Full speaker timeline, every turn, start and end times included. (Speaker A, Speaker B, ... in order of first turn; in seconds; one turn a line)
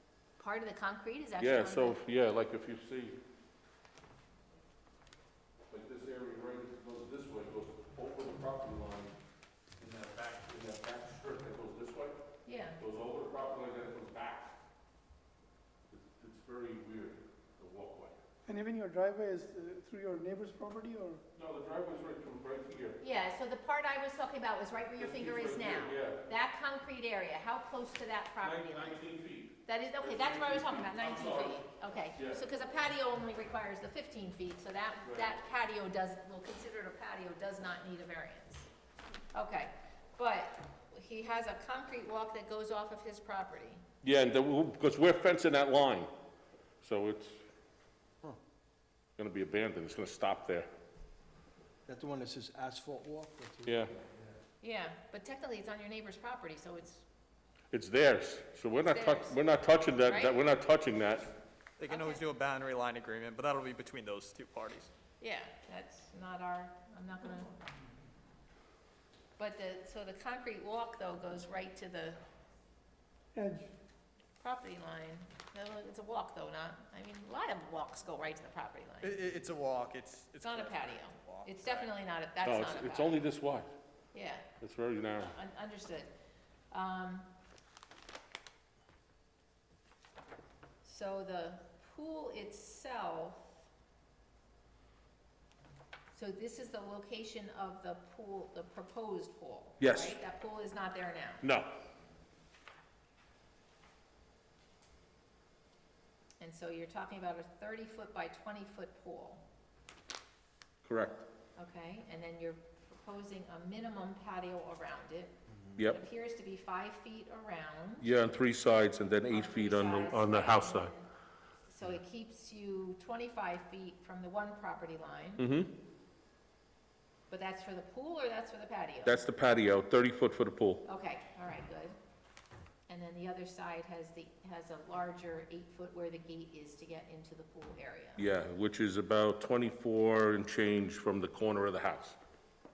Speaker A: 0.4-2.0
Speaker B: 1.4-3.1
Speaker B: 5.7-9.1
Speaker B: 9.8-12.2
Speaker A: 12.5-12.8
Speaker B: 12.8-14.5
Speaker B: 15.9-18.2
Speaker C: 18.5-21.2
Speaker B: 21.4-23.0
Speaker A: 23.0-29.0
Speaker B: 25.0-26.3
Speaker B: 28.4-32.4
Speaker A: 29.7-38.7
Speaker B: 35.0-35.4
Speaker A: 39.3-43.8
Speaker B: 44.0-46.1
Speaker B: 46.8-47.4
Speaker B: 49.2-50.7
Speaker D: 51.9-54.0
Speaker B: 53.6-53.9
Speaker A: 54.6-57.0
Speaker B: 57.7-61.3
Speaker A: 58.8-59.4
Speaker A: 60.0-60.4
Speaker E: 61.8-64.9
Speaker A: 61.9-62.2
Speaker A: 65.2-67.5
Speaker A: 69.4-72.2
Speaker C: 73.3-73.7
Speaker A: 74.4-79.2
Speaker E: 79.0-81.9
Speaker A: 80.4-83.2
Speaker B: 82.4-83.7
Speaker A: 84.1-84.5
Speaker B: 84.6-85.4
Speaker A: 85.2-86.1
Speaker A: 86.7-87.3
Speaker A: 90.8-93.5
Speaker A: 96.1-101.4
Speaker B: 99.8-100.2
Speaker B: 101.4-101.7
Speaker A: 106.4-109.4
Speaker B: 110.8-111.2
Speaker A: 111.6-118.0
Speaker B: 118.0-120.9
Speaker A: 119.2-121.1
Speaker A: 121.7-125.4
Speaker B: 125.4-125.7
Speaker A: 127.3-129.2
Speaker B: 129.1-130.8
Speaker A: 130.9-131.9
Speaker A: 132.9-138.2
Speaker B: 138.2-142.2